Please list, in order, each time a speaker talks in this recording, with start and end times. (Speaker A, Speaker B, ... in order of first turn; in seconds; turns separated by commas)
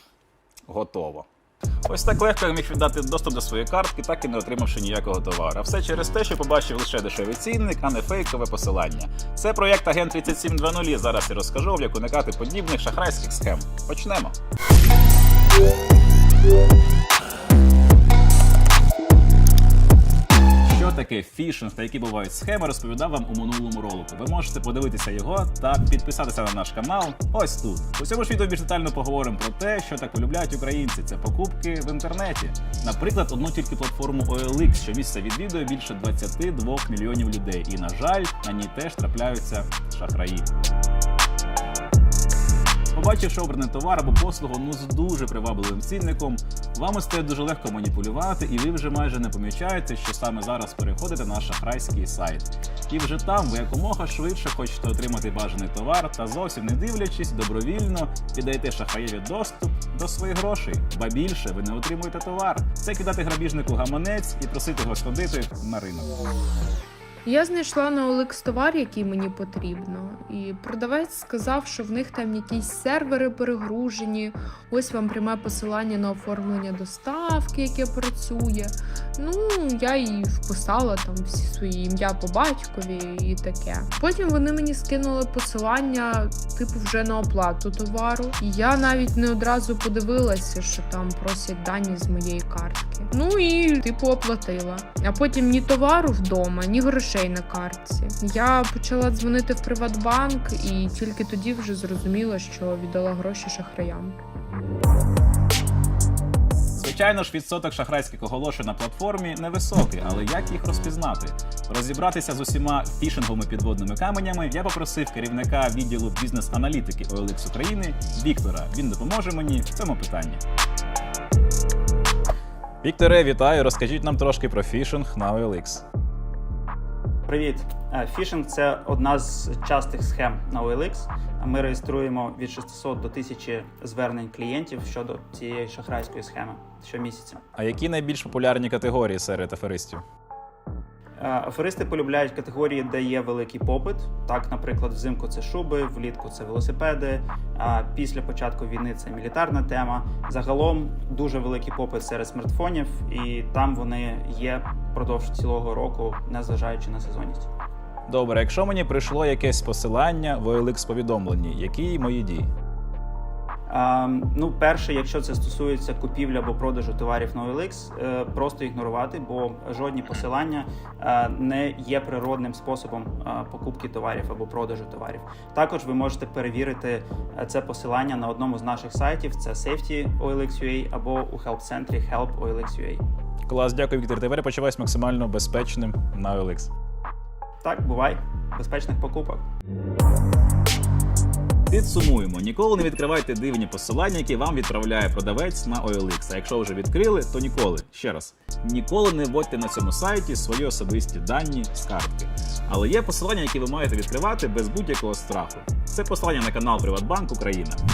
Speaker A: 0.7-1.3, Speaker A: 1.8-14.4, Speaker A: 20.6-40.5, Speaker A: 42.9-66.2, Speaker B: 67.2-104.2, Speaker A: 106.7-120.4, Speaker A: 122.8-125.8, Speaker C: 127.3-137.4, Speaker A: 137.6-140.1, Speaker C: 141.2-157.5, Speaker A: 158.1-162.5, Speaker C: 163.7-183.0, Speaker A: 183.5-186.7, Speaker C: 187.6-189.4, Speaker A: 191.7-207.8